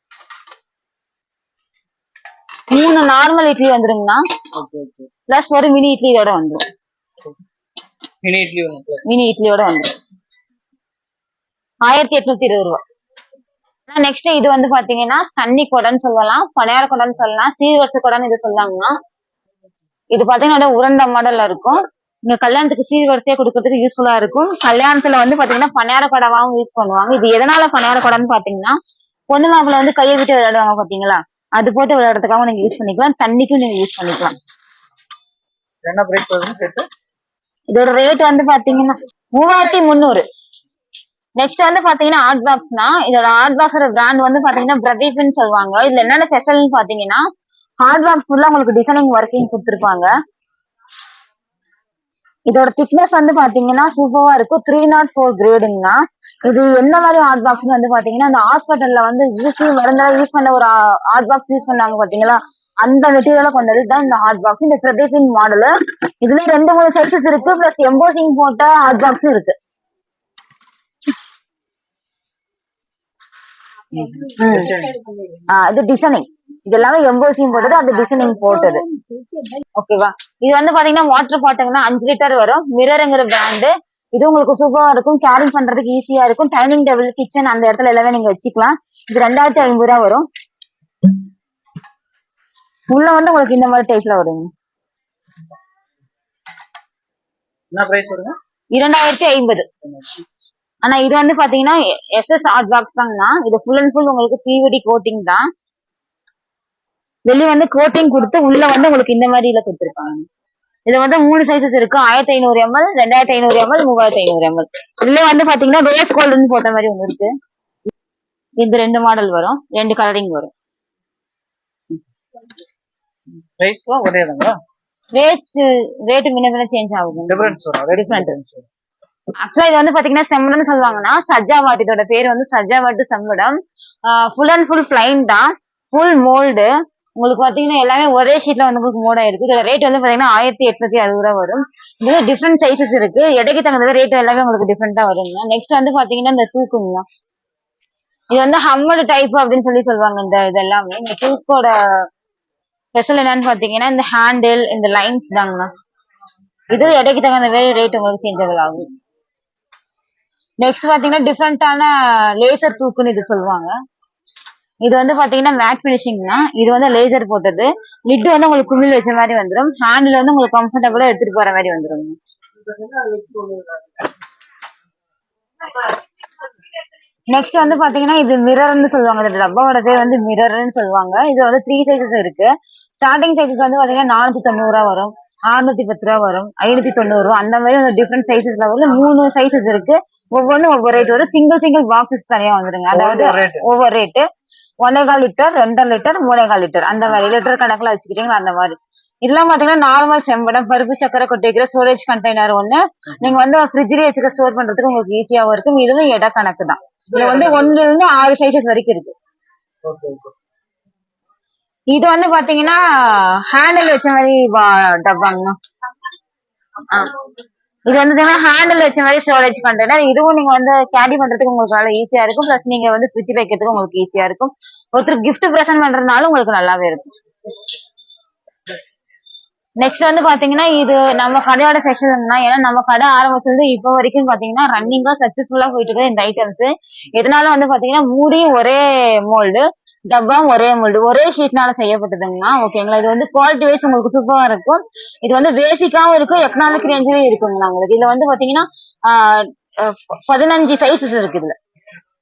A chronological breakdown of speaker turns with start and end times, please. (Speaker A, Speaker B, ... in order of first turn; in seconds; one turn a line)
Speaker A: 2.7-4.2
Speaker B: 4.5-5.1
Speaker A: 5.3-6.6
Speaker B: 8.2-9.0
Speaker A: 9.1-9.9
Speaker A: 11.8-12.8
Speaker A: 13.9-18.9
Speaker A: 20.1-28.8
Speaker A: 29.3-34.4
Speaker B: 35.8-36.9
Speaker A: 37.7-40.2
Speaker A: 41.4-47.2
Speaker A: 47.8-50.1
Speaker A: 52.5-65.7
Speaker A: 66.2-69.5
Speaker B: 73.9-75.0
Speaker A: 74.3-74.7
Speaker A: 75.5-78.8
Speaker A: 79.8-90.2
Speaker A: 92.9-94.5
Speaker B: 97.7-98.3
Speaker A: 98.7-99.7
Speaker A: 100.8-105.5
Speaker A: 107.2-110.2
Speaker A: 110.8-117.3
Speaker A: 118.6-120.5
Speaker B: 123.6-124.5
Speaker A: 125.1-128.3
Speaker B: 127.3-128.6
Speaker A: 129.4-147.0
Speaker A: 148.3-152.0
Speaker A: 152.9-155.7
Speaker A: 156.7-158.8
Speaker A: 160.6-163.7
Speaker A: 164.8-172.2
Speaker B: 173.0-173.4
Speaker A: 177.3-194.2
Speaker B: 192.9-193.6
Speaker A: 194.8-209.1
Speaker B: 207.2-207.4
Speaker B: 209.8-210.3
Speaker A: 211.9-215.6
Speaker A: 217.9-227.1
Speaker A: 229.8-251.5